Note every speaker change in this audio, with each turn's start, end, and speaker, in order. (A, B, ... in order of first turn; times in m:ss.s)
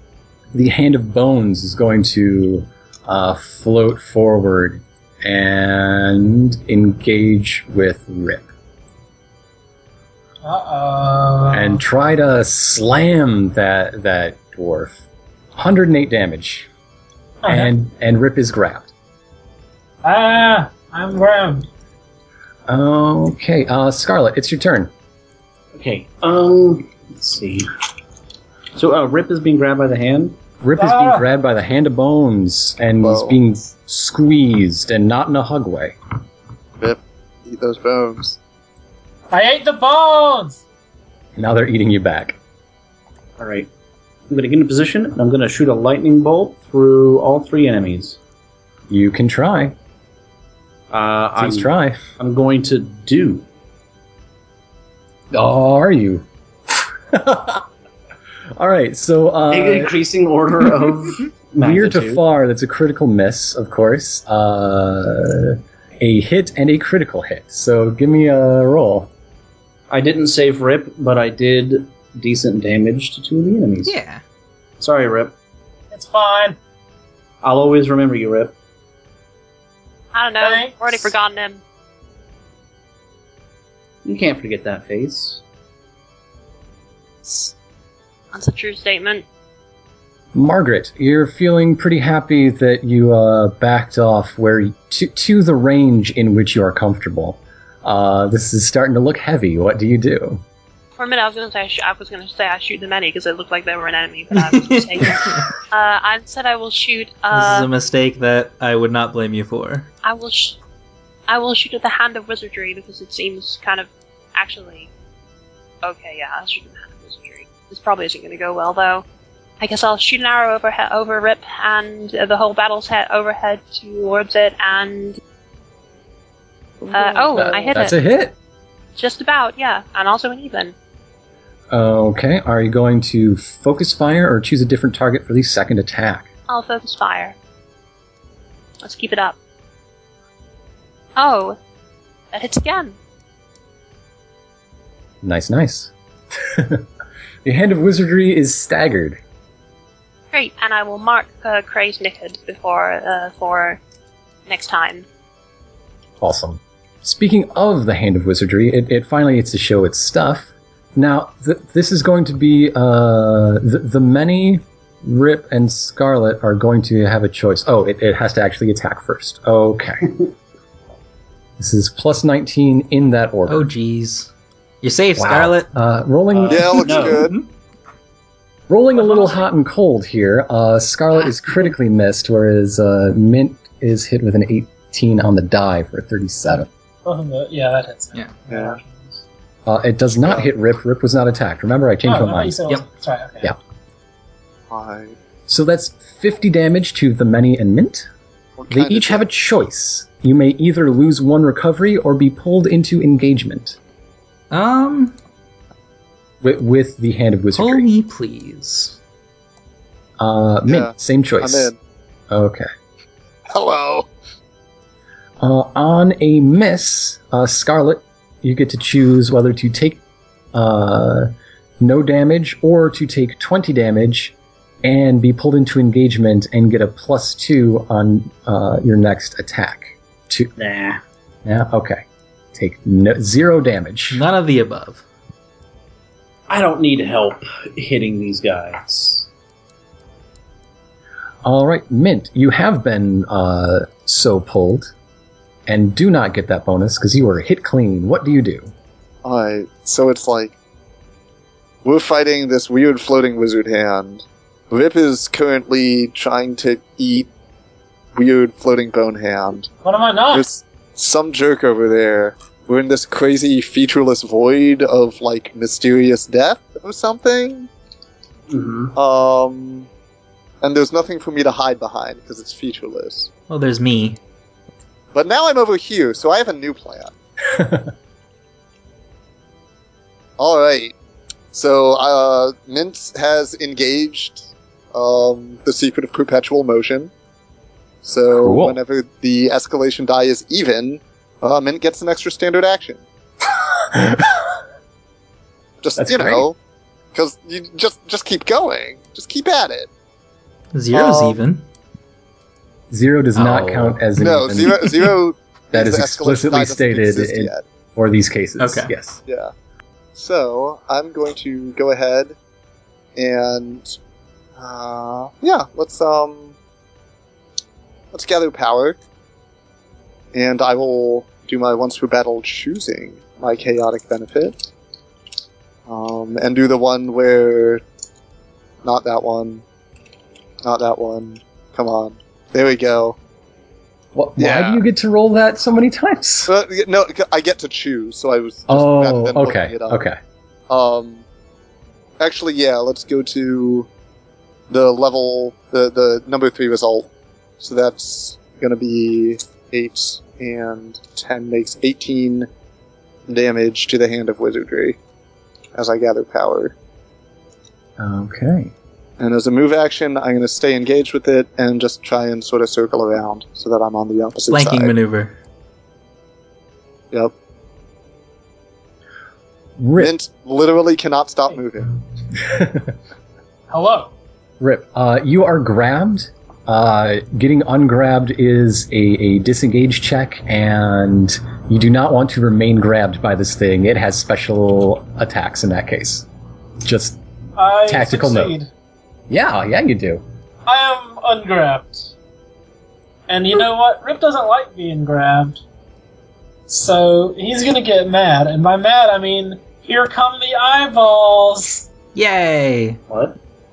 0:00.5-0:08.5 A
0:10.4-0:11.8 B
0:11.5-0:15.0 A
0:15.5-0:16.7 A
0:17.4-0:17.7 B
0:17.4-0:18.9 A
0:20.0-0:21.7 B
0:22.7-0:24.9 A
0:25.7-0:27.7 C
0:28.7-0:30.4 C
0:30.6-0:36.0 A
0:30.8-0:31.2 B
0:33.0-0:33.4 D
0:36.8-0:38.4 D
0:39.3-0:40.6 B
0:41.4-0:42.4 A
0:43.4-0:43.7 C
0:44.3-0:48.2 C
0:48.9-0:49.7 A
0:50.9-0:53.4 C
0:51.4-0:52.0 A
0:55.3-0:56.2 A
0:57.1-0:57.6 A
0:58.5-0:59.9 A
0:59.5-1:02.2 C
1:01.6-1:09.1 A
1:09.9-1:14.0 C
1:13.8-1:14.2 E
1:14.8-1:15.3 C
1:15.9-1:16.6 B
1:17.4-1:18.5 C
1:20.1-1:21.6 F
1:20.4-1:21.0 B
1:24.0-1:25.4 C
1:27.2-1:27.5 F
1:28.3-1:29.2 F
1:30.3-1:40.4 A
1:41.0-1:47.7 F
1:45.1-1:45.4 E
1:47.3-1:49.9 E
1:50.0-1:50.6 F
1:51.3-1:54.9 F
1:55.8-1:59.0 F
1:59.6-2:05.2 F
2:06.9-2:08.0 F
2:06.9-2:07.7 B
2:07.3-2:08.4 A
2:09.0-2:10.7 F
2:11.7-2:16.3 A
2:16.5-2:17.3 F
2:18.8-2:19.4 F
2:21.2-2:21.6 F
2:22.3-2:23.0 F
2:25.2-2:26.8 A
2:27.4-2:29.2 A
2:30.3-2:33.8 F
2:34.5-2:35.0 F
2:36.2-2:50.2 A
2:51.6-2:53.7 A
2:53.5-2:54.3 E
2:54.8-2:55.7 E
2:55.2-2:57.1 A
2:56.3-2:57.3 C
2:56.5-2:57.3 D
2:57.2-2:57.4 E
2:58.7-3:06.7 A
2:59.0-2:59.4 B
3:07.0-3:09.2 B
3:08.5-3:08.8 D
3:09.6-3:12.6 A
3:10.2-3:10.5 D
3:12.0-3:13.5 B
3:14.7-3:15.1 D
3:15.5-3:18.1 A
3:18.6-3:19.2 D
3:18.7-3:23.8 A
3:24.5-3:25.2 E
3:26.4-3:27.9 A
3:27.6-3:29.0 E
3:30.2-3:31.7 A
3:30.7-3:31.8 D
3:32.3-3:32.7 A
3:33.5-3:34.1 D
3:35.4-3:40.0 A
3:40.5-3:50.5 A
3:50.6-3:51.0 C
3:51.4-3:54.2 A
3:54.1-3:55.0 E
3:56.5-3:59.3 C
4:01.4-4:04.9 A
4:05.7-4:08.7 A
4:09.2-4:10.5 D
4:11.8-4:17.3 D
4:18.1-4:19.7 D
4:19.8-4:20.5 B
4:20.3-4:27.7 D
4:28.5-4:28.9 C
4:28.9-4:29.9 D
4:30.6-4:33.3 D
4:33.5-4:34.2 E
4:35.1-4:37.1 D
4:37.5-4:37.9 A
4:40.4-4:40.9 D
4:41.5-4:47.1 D
4:48.0-4:53.0 D
4:48.3-4:48.8 A
4:53.9-4:54.2 A
4:55.8-4:56.6 D
4:56.0-4:56.5 A
4:57.1-4:59.9 D
5:00.7-5:01.6 E
5:00.9-5:01.4 D
5:02.9-5:05.2 A
5:03.3-5:04.0 E
5:04.2-5:07.6 D
5:05.7-5:09.2 A
5:08.6-5:08.9 E
5:09.2-5:09.5 D
5:10.1-5:12.4 D
5:13.2-5:13.9 D
5:14.6-5:16.5 D
5:18.1-5:19.0 D
5:20.3-5:24.7 D
5:25.9-5:27.8 D
5:28.8-5:29.6 D
5:30.6-5:33.2 D
5:34.1-5:36.5 A
5:34.4-5:34.8 D
5:36.5-5:40.0 D
5:38.7-5:40.2 A
5:40.7-5:41.2 D
5:42.2-5:43.9 D
5:44.7-5:52.5 D
5:53.3-5:55.0 D
5:55.7-5:56.7 D
5:58.0-5:58.7 A
5:59.2-6:04.9 D
6:04.5-6:05.3 E
6:09.8-6:10.1 A
6:10.0-6:11.9 D
6:12.5-6:12.9 A
6:13.7-6:14.1 B
6:14.6-6:26.3 A
6:26.8-6:27.2 A
6:27.5-6:28.7 B
6:27.8-6:28.6 A
6:29.3-6:30.2 A
6:30.6-6:32.1 B
6:33.3-6:35.6 B
6:36.7-6:41.9 B
6:42.1-6:43.0 E
6:43.1-6:43.4 C